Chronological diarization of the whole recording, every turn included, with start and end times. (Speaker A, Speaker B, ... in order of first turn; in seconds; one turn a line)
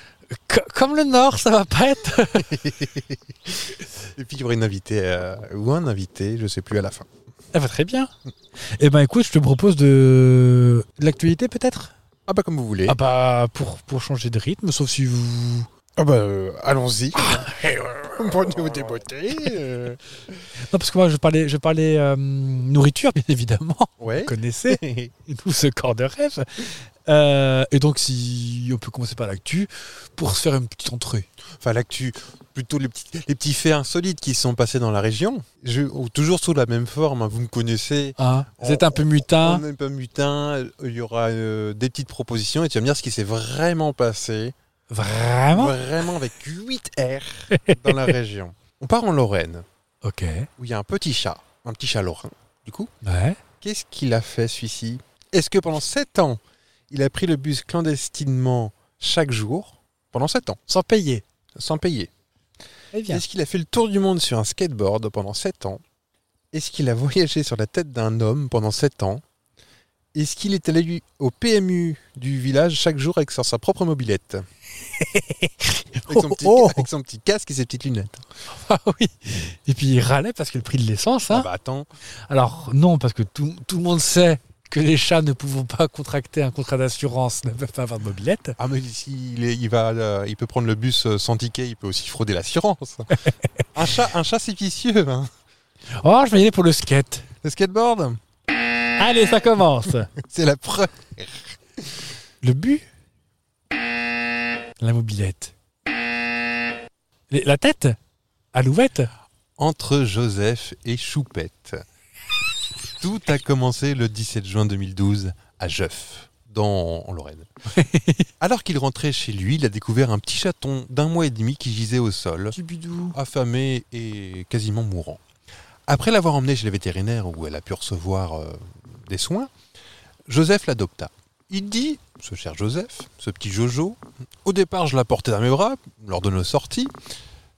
Speaker A: 0.3-2.5
Speaker B: 2.4-7.1
Speaker A: 7.5-8.1
Speaker A: 8.8-11.9
Speaker B: 12.3-13.0
Speaker A: 12.8-15.7
Speaker B: 15.9-17.5
Speaker A: 17.1-18.6
Speaker B: 18.1-20.0
Speaker A: 20.7-31.3
Speaker B: 24.0-25.1
Speaker B: 31.6-44.5
Speaker A: 38.2-39.6
Speaker A: 44.9-45.8
Speaker B: 45.5-49.6
Speaker A: 47.5-48.1
Speaker A: 50.0-50.5
Speaker B: 50.6-52.9
Speaker A: 53.0-53.4
Speaker B: 53.6-60.6
Speaker A: 60.7-61.2
Speaker B: 61.5-62.1
Speaker A: 62.9-63.2
Speaker B: 63.1-65.8
Speaker B: 66.5-69.2
Speaker B: 70.1-74.5
Speaker A: 74.9-76.9
Speaker B: 76.1-78.2
Speaker A: 78.5-81.5
Speaker B: 81.3-81.9
Speaker A: 82.3-88.6
Speaker B: 88.6-93.1
Speaker B: 93.7-95.3
Speaker A: 96.0-97.3
Speaker B: 97.4-98.2
Speaker A: 99.0-100.1
Speaker B: 100.2-102.0
Speaker A: 102.4-102.8
Speaker A: 104.8-105.5
Speaker A: 107.3-108.0
Speaker A: 108.5-109.1
Speaker B: 109.6-111.8
Speaker B: 113.0-117.5
Speaker A: 117.7-118.3
Speaker B: 118.4-122.5
Speaker A: 122.5-123.2
Speaker B: 123.1-125.2
Speaker B: 125.9-129.5
Speaker B: 130.3-136.9